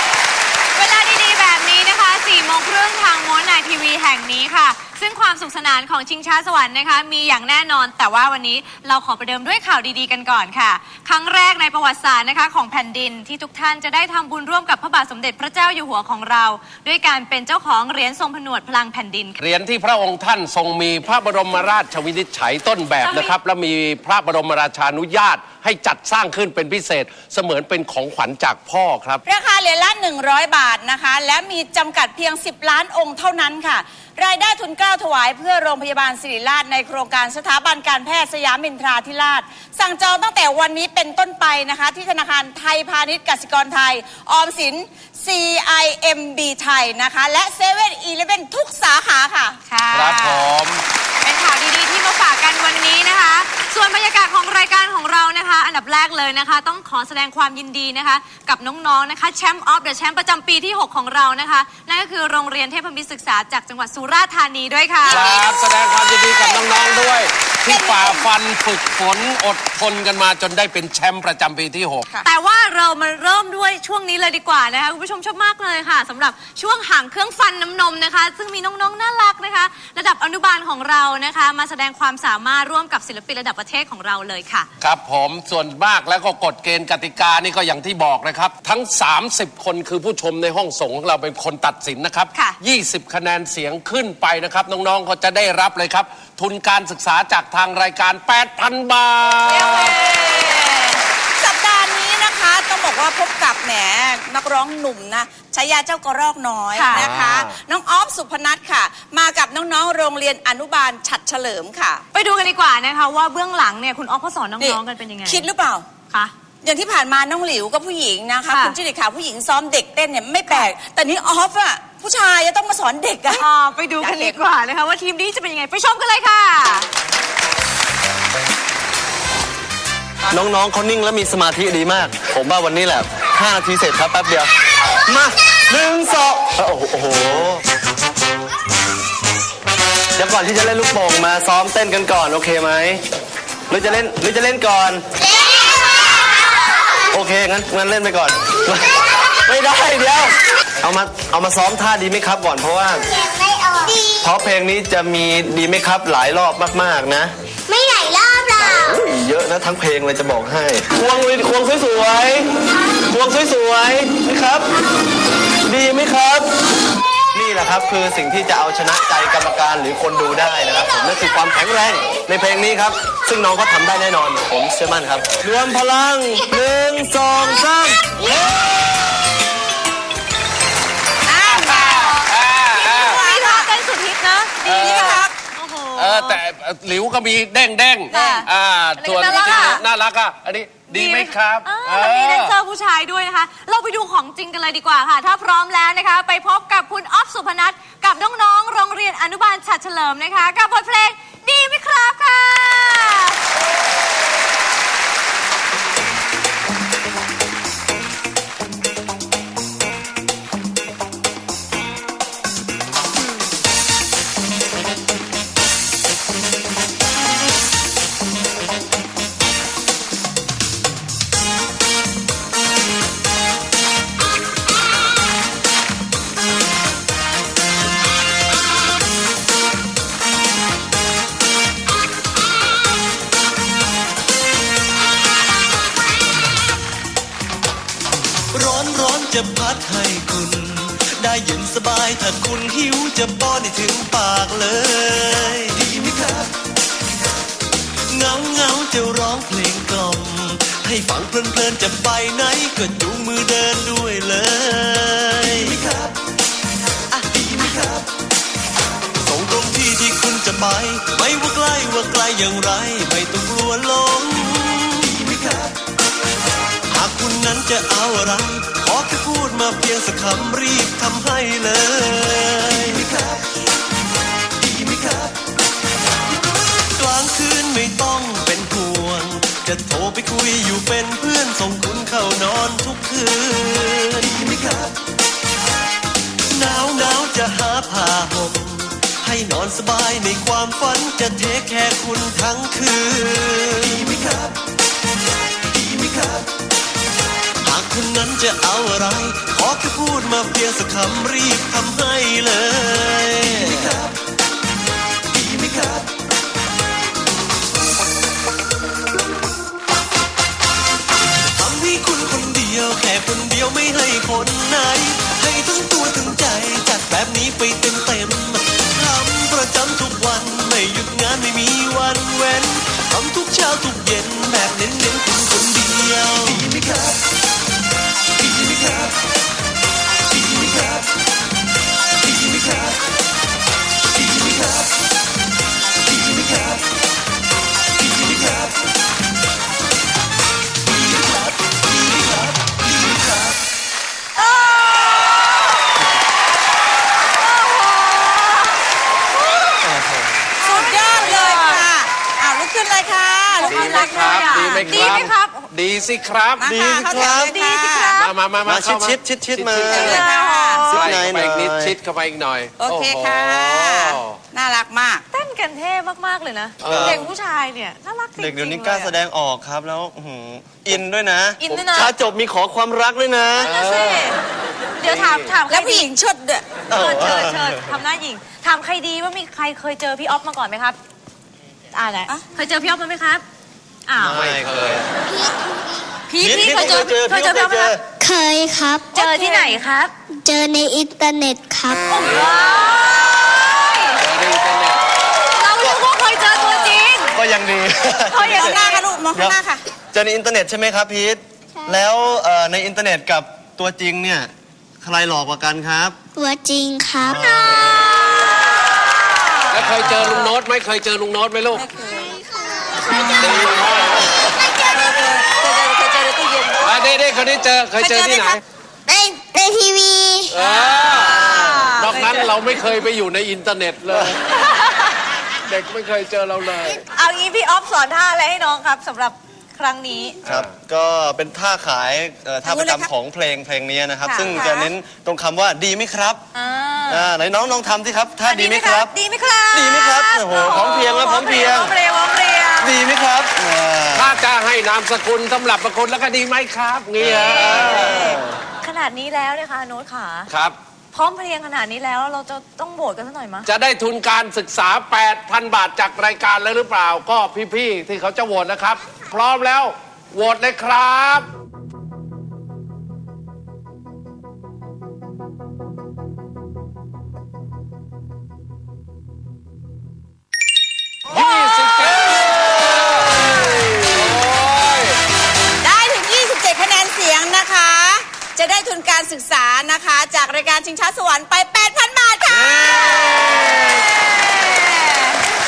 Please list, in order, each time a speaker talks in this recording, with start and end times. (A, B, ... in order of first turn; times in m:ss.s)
0:00.7-0:19.4 A
0:19.4-0:29.2 B
0:23.0-0:23.3 A
0:29.2-0:49.6 C
0:49.7-0:50.5 A
0:49.9-0:50.8 B
0:51.2-1:05.7 A
1:05.0-1:12.1 B
1:05.1-1:05.9 C
1:06.5-1:07.0 C
1:07.6-1:08.2 C
1:12.2-1:24.7 A
1:24.8-1:40.0 B
1:39.5-1:52.0 C
1:46.7-1:47.0 A
1:46.9-1:47.6 B
1:52.1-1:55.5 A
1:54.6-1:55.8 C
1:56.6-2:03.4 C
1:58.5-1:58.8 A
2:03.4-2:06.9 A
2:04.0-2:04.4 C
2:10.3-2:17.6 D
2:20.1-2:23.0 D
2:23.7-2:25.0 D
2:25.2-2:27.0 E
2:27.1-2:33.1 D
2:33.1-2:34.2 E
2:34.2-2:37.3 D
2:37.7-2:39.0 E
2:38.6-2:42.5 D
2:43.1-2:44.7 D
2:45.6-2:46.5 D
2:47.3-2:58.1 D
2:58.3-2:58.6 B
3:01.2-3:02.2 C
3:01.4-3:03.2 B
3:02.7-3:03.7 C
3:03.0-3:06.4 A
3:04.6-3:05.3 B
3:04.6-3:05.3 C
3:05.9-3:12.5 B
3:08.1-3:08.5 A
3:08.1-3:08.4 C
3:09.0-3:09.8 A
3:09.2-3:09.7 C
3:10.9-3:23.4 A
3:58.5-4:06.3 F
4:08.1-4:16.0 F
4:17.1-4:18.0 F
4:19.2-4:25.6 F
4:26.9-4:33.2 F
4:36.9-4:44.8 F
4:46.5-4:54.4 F
4:57.6-5:04.1 F
5:11.5-5:26.9 F
5:44.4-5:45.1 A
5:47.3-5:48.8 A
5:49.8-5:50.5 D
5:50.6-5:55.1 C
5:50.7-5:51.8 A
5:53.5-5:55.7 A
5:53.6-5:56.7 B
5:56.6-5:58.1 C
5:56.6-5:57.6 D
5:57.1-5:58.3 A
5:58.2-6:00.2 B
5:58.6-6:00.2 D
5:59.8-6:00.9 C
5:59.9-6:01.1 A
6:00.8-6:04.4 B
6:00.9-6:02.0 D
6:02.8-6:05.2 C
6:05.3-6:09.1 A
6:06.8-6:07.2 B
6:06.8-6:07.2 D
6:08.4-6:13.7 D
6:11.6-6:12.1 A
6:11.6-6:12.0 B
6:13.6-6:14.4 A
6:13.6-6:14.3 B
6:15.0-6:16.0 A
6:15.0-6:15.5 B
6:15.7-6:16.7 C
6:16.9-6:18.0 D
6:16.9-6:21.0 A
6:21.9-6:23.4 A
6:24.1-6:24.4 A
6:24.2-6:25.1 D
6:24.3-6:25.1 B
6:26.3-6:27.9 A
6:26.4-6:28.0 D
6:28.2-6:29.3 E
6:29.1-6:30.1 A
6:29.3-6:29.7 C
6:30.3-6:32.2 E
6:32.1-6:34.2 A
6:32.2-6:32.6 B
6:34.2-6:35.0 B
6:35.5-6:37.3 A
6:36.5-6:37.0 C
6:37.3-6:38.8 D
6:38.3-6:39.0 A
6:38.4-6:39.8 C
6:40.1-6:46.2 D
6:46.3-6:47.7 E
6:47.2-6:48.0 D
6:49.7-6:51.8 B
6:49.7-6:50.4 D
6:51.7-6:52.4 C
6:52.6-6:53.6 E
6:53.3-6:54.4 B
6:54.9-6:56.9 C
6:56.8-6:58.6 B
6:58.0-6:58.6 C
6:59.0-7:00.5 E
7:00.5-7:04.4 B
7:00.8-7:02.4 C
7:01.0-7:02.3 A
7:04.6-7:05.1 A
7:05.6-7:07.0 B
7:07.1-7:10.4 A
7:10.4-7:10.7 B
7:10.4-7:16.4 D
7:12.6-7:13.1 C
7:14.2-7:14.9 A
7:16.5-7:17.3 A
7:17.1-7:19.1 D
7:18.4-7:22.9 A
7:19.7-7:21.9 D
7:22.8-7:24.5 D
7:24.1-7:28.2 B
7:27.2-7:28.6 D
7:27.2-7:30.5 A
7:30.5-7:30.8 B
7:31.1-7:33.7 A
7:33.6-7:41.5 B
7:51.3-7:55.2 B
7:55.8-8:03.4 C
8:02.8-8:05.4 A
8:03.1-8:03.7 B